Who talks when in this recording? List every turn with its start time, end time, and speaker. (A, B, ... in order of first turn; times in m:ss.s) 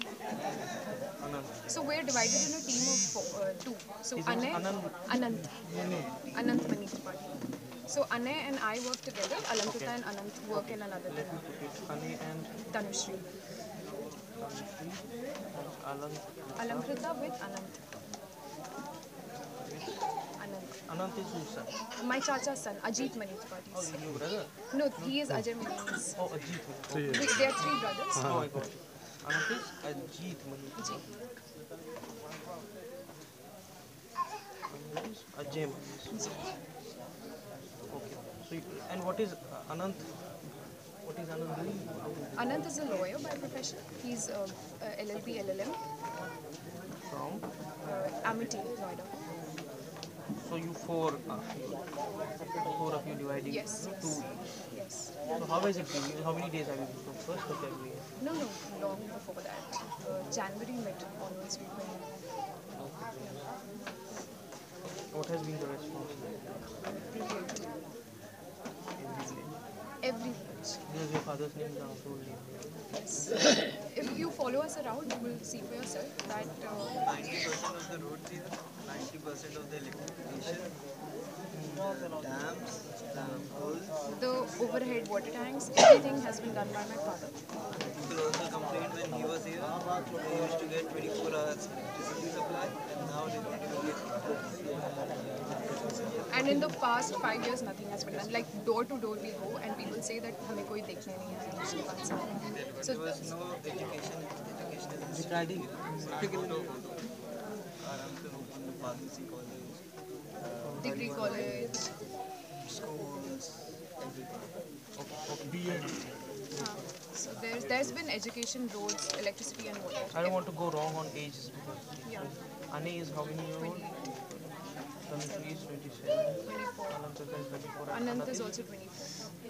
0:00.5-0:01.6 A
0:01.6-0:05.6 B
0:04.2-0:05.2 A
0:05.7-0:06.5 C
0:06.3-0:11.4 B
0:09.6-0:12.6 A
0:12.7-0:13.3 B
0:14.4-0:17.0 A
0:16.6-0:17.9 B
0:19.5-0:21.8 A
0:20.4-0:20.9 B
0:22.0-0:26.2 B
0:23.7-0:25.3 A
0:26.2-0:31.2 A
0:27.0-0:28.3 B
0:30.8-0:31.1 B
0:34.7-0:36.4 A
0:36.1-0:36.5 B
0:37.9-0:42.8 A
0:42.4-0:45.8 B
0:47.0-0:47.6 A
0:47.8-0:49.2 B
0:48.2-0:48.6 A
0:50.3-0:51.9 A
0:52.5-0:54.5 A
0:53.4-0:55.2 B
0:55.3-0:58.2 A
0:58.2-1:02.1 B
1:02.7-1:03.5 A
1:05.0-1:06.8 A
1:06.9-1:07.7 B
1:09.0-1:09.6 A
1:10.0-1:10.8 B
1:10.8-1:12.8 A
1:12.9-1:17.0 B
1:16.9-1:20.8 C
1:21.5-1:21.9 A
1:21.7-1:24.0 C
1:24.1-1:27.4 B
1:28.0-1:35.0 C
1:34.8-1:36.8 A
1:35.8-1:36.2 C
1:36.3-1:43.3 B
1:38.1-1:38.5 A
1:42.5-1:47.1 C
1:45.1-1:46.4 A
1:47.8-1:54.6 C
1:50.6-1:51.8 A
1:50.8-1:52.0 B
1:55.0-1:56.9 A
1:56.6-2:00.5 B
2:00.1-2:08.7 A
2:02.0-2:02.3 B
2:03.6-2:04.1 B
2:06.4-2:07.1 B
2:07.9-2:09.2 B